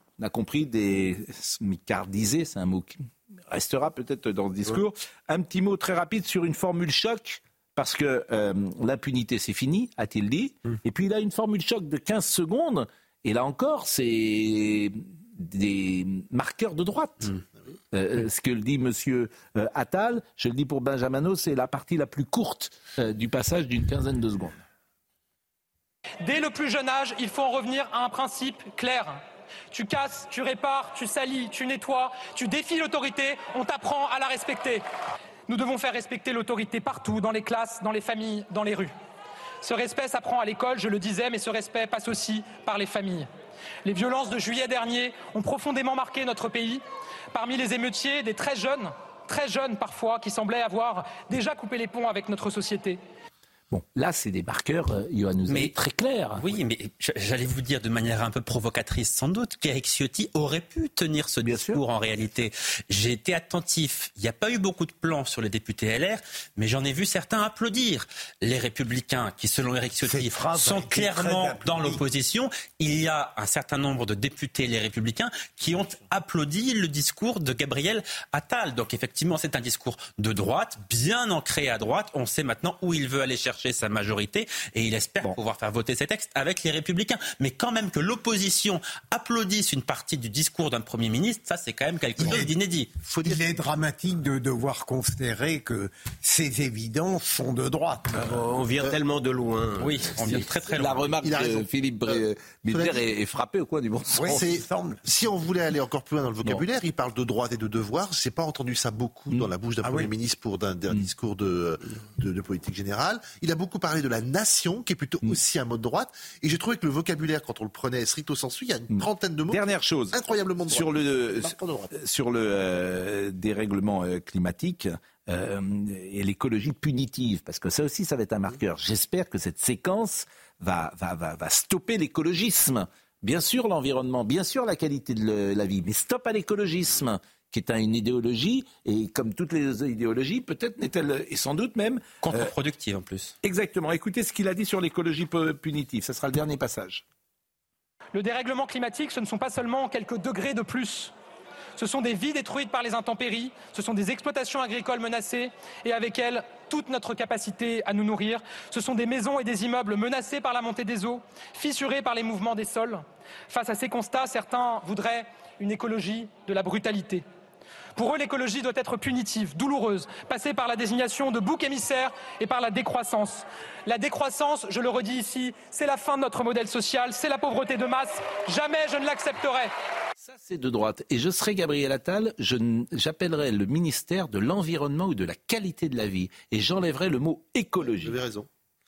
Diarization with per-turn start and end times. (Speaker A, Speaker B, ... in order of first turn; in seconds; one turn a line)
Speaker A: 0.2-17.3
Speaker A: 17.9-24.6
Speaker B: 26.2-29.2
Speaker B: 29.7-34.8
Speaker B: 35.5-38.9
Speaker B: 39.6-43.3
Speaker B: 43.8-46.8
Speaker B: 47.3-53.0
Speaker A: 53.7-56.5
Speaker C: 55.5-55.7
Speaker C: 56.4-92.9
Speaker A: 61.4-61.8
Speaker D: 70.0-72.0
Speaker E: 92.2-92.5
Speaker E: 93.1-93.4
Speaker D: 93.2-98.4
Speaker F: 98.1-100.4
Speaker C: 99.8-101.2
Speaker A: 100.7-104.4
Speaker E: 101.2-103.1
Speaker D: 104.1-105.0
Speaker E: 104.2-121.2
Speaker D: 109.8-110.1
Speaker A: 118.9-142.5
Speaker C: 142.2-143.3
Speaker A: 143.4-147.0
Speaker B: 148.1-151.1
Speaker B: 151.8-167.2
Speaker B: 167.9-179.7
Speaker A: 180.2-188.2
Speaker E: 187.8-188.5